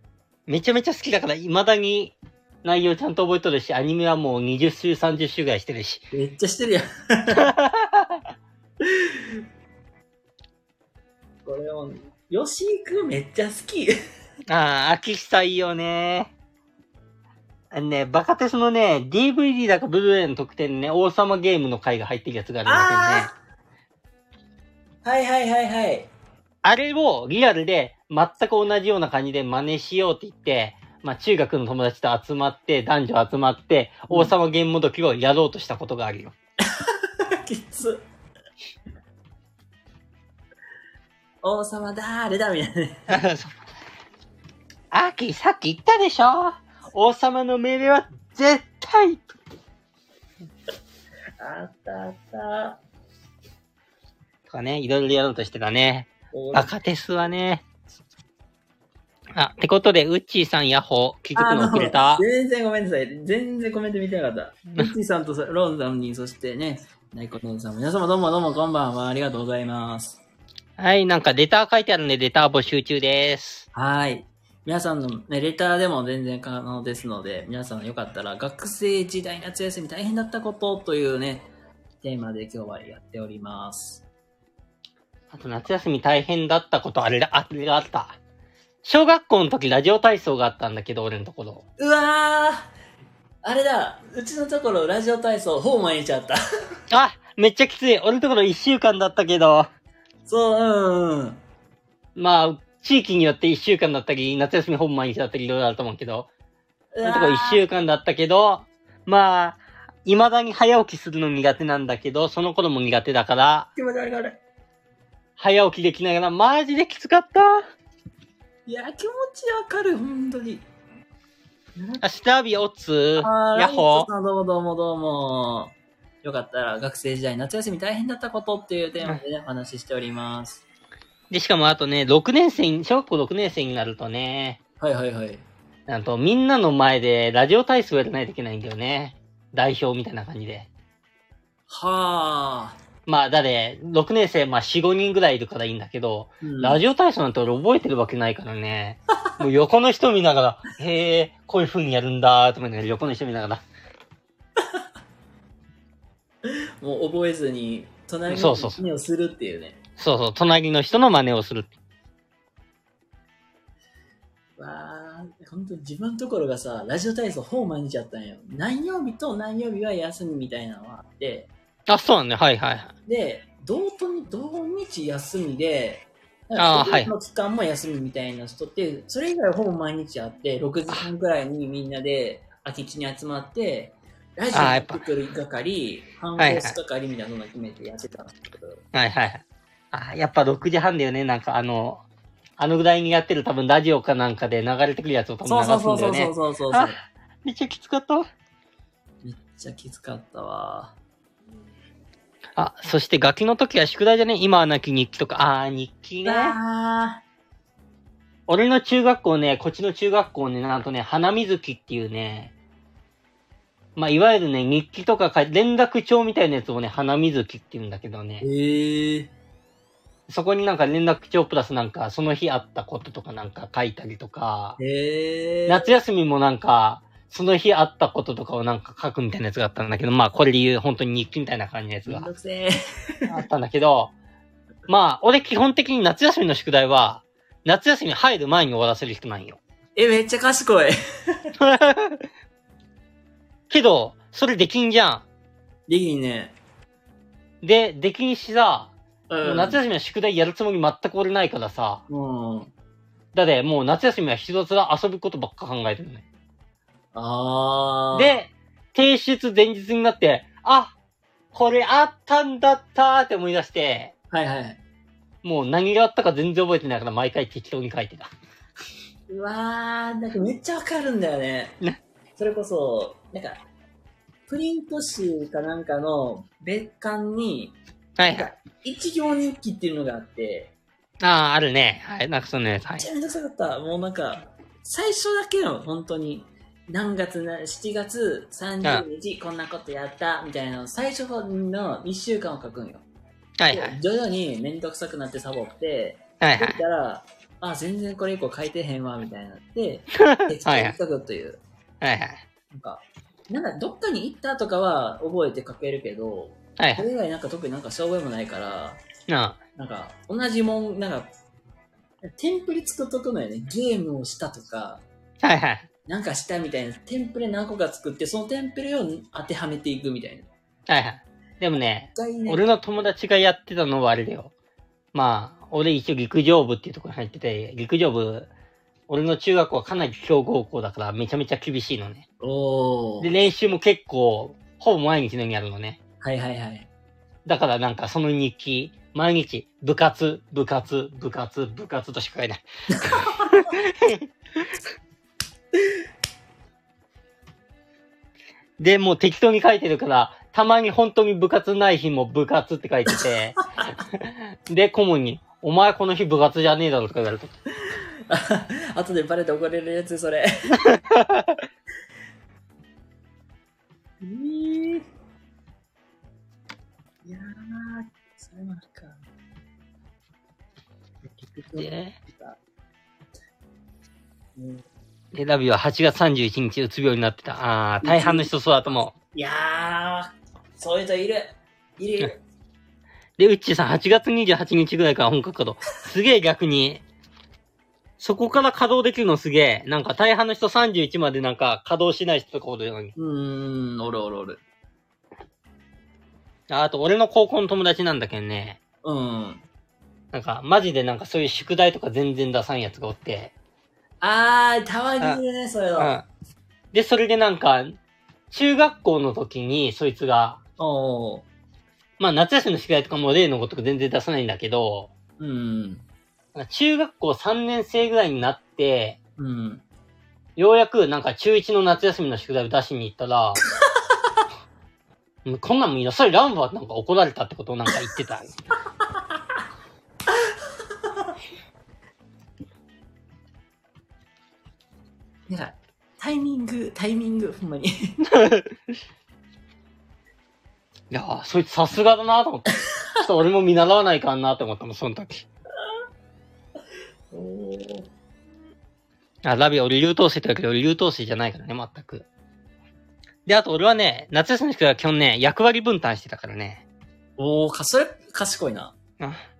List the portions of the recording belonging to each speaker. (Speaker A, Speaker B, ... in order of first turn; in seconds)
Speaker A: 0.5-6.0, 7.3-8.2, 14.5-16.3, 17.7-23.3, 26.6-36.3, 43.1-43.5, 44.9-49.3, 54.5-57.6, 59.3-62.2, 70.8-73.6, 85.3-88.2, 88.8-91.6, 96.9-99.7, 102.2-106.3, 107.0-113.7, 115.4-117.7, 122.0-124.1, 131.3-134.6, 135.9-140.7, 143.1-153.6, 158.3-158.8, 160.0-161.7, 171.9-172.9, 176.6-177.1, 184.5-185.0, 186.4-186.8, 188.9-192.0, 192.6-198.3, 202.6-206.6, 208.5-212.5, 213.9-218.4, 220.3-224.8, 225.7-232.3, 233.3-234.1, 234.9-239.6, 241.6-242.2, 243.7-245.2, 247.6-252.0, 253.3-256.2, 258.1-260.9, 261.5-264.1, 265.4-268.3, 278.2-278.5, 281.2-283.1, 293.6-294.0, 296.4-296.8, 300.2-301.0, 302.0-302.4, 306.8-307.1, 309.3-309.6, 315.4-315.9, 320.9-324.5, 325.1-328.5, 329.1-332.2, 333.2-336.0, 337.4-344.6, 348.8-353.6, 354.1-357.5, 360.8-361.6, 371.8-372.1, 375.3-379.1, 383.4-387.0, 388.2-393.1, 396.7-398.8, 400.3-403.5, 406.0-406.2, 406.9-408.0, 408.5-410.6, 412.2-415.1, 416.5-419.2, 420.6-423.6, 425.4-428.5, 438.3-438.7, 441.1-442.7, 443.2-445.4, 449.4-452.2, 453.4-456.8
Speaker B: 6.1-7.5, 8.8-9.2, 11.4-13.9, 22.6-23.3, 25.0-26.1, 36.7-38.0, 41.4-43.1, 51.4-52.8, 56.3-56.7, 61.4-70.2, 73.7-81.5, 82.0-84.0, 91.8-92.7, 93.4-96.4, 100.3-101.4, 106.9-107.6, 113.8-114.4, 118.7-120.6, 121.8-122.0, 123.2-130.6, 134.8-135.4, 141.7-142.8, 146.4-146.8, 156.4-159.8, 164.6-171.5, 173.1-188.8, 195.4-197.0, 199.2-200.9, 206.2-207.2, 218.4-219.3, 224.8-226.0, 232.0-233.4, 239.9-241.5, 245.9-246.5, 249.3-249.8, 252.1-252.7, 257.1-258.4, 264.3-264.8, 269.3-271.8, 272.4-273.6, 274.5-280.7, 283.0-293.0, 293.7-301.6, 302.7-309.0, 309.8-311.3, 312.3-315.0, 316.1-320.5, 322.1-322.7, 332.4-333.3, 336.2-336.9, 342.9-343.7, 353.1-353.9, 357.9-360.8, 364.2-365.0, 367.2-369.2, 371.2-372.6, 374.6-374.8, 378.0-382.4, 393.1-394.6, 399.0-399.6, 404.2-406.1, 410.8-411.4, 415.4-416.0, 419.4-419.8, 435.5-438.2, 447.3-448.1, 457.4-458.9